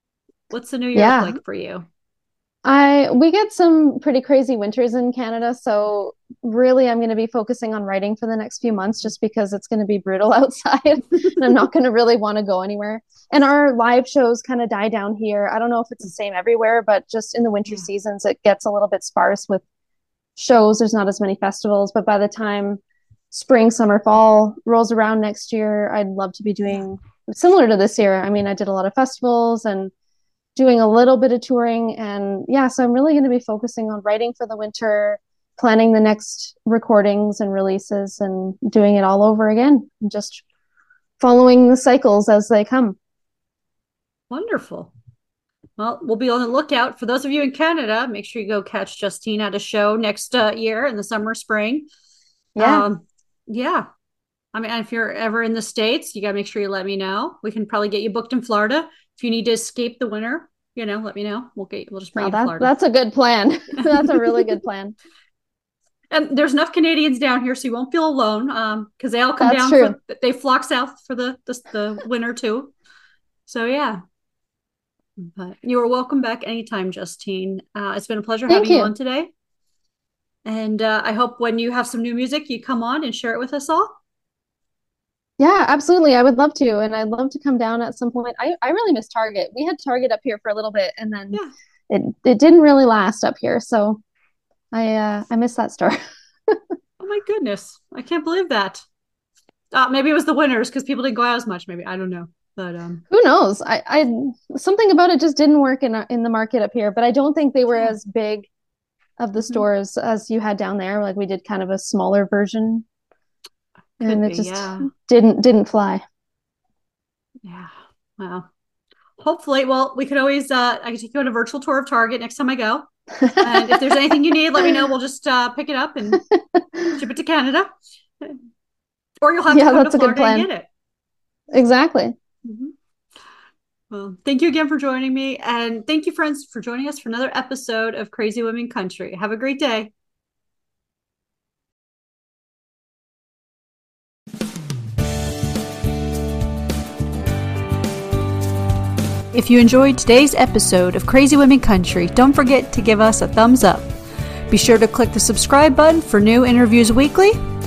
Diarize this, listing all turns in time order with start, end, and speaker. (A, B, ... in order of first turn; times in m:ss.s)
0:00.5-0:01.9 A
0:01.0-0:01.4 B
0:02.6-0:19.6 B
0:20.4-0:29.9 B
0:30.6-0:40.4 B
0:41.2-0:43.0 B
0:44.3-0:44.9 A
0:45.8-0:51.9 A
0:52.6-0:52.9 B
0:52.6-0:53.9 A
0:54.5-1:02.7 A
1:02.2-1:05.0 B
1:06.1-1:12.7 A
1:09.4-1:10.0 B
1:13.5-1:14.0 A
1:15.2-1:19.3 A
1:18.5-1:18.9 B
1:20.4-1:23.9 A
1:25.4-1:34.0 B
1:34.7-1:36.6 B
1:37.0-1:38.8 A
1:39.7-1:43.0 A
1:43.1-1:48.5 B
1:49.2-1:52.8 B
1:54.0-1:54.9 A
1:54.0-1:56.0 B
1:57.4-1:58.5 A
1:59.2-2:06.2 A
2:03.2-2:03.9 B
2:06.2-2:07.0 B
2:06.9-2:07.7 A
2:09.2-2:10.7 A
2:09.5-2:10.5 B
2:11.5-2:12.2 B
2:12.4-2:12.7 A
2:13.9-2:19.9 A
2:29.3-2:33.9 A
2:34.5-2:37.4 A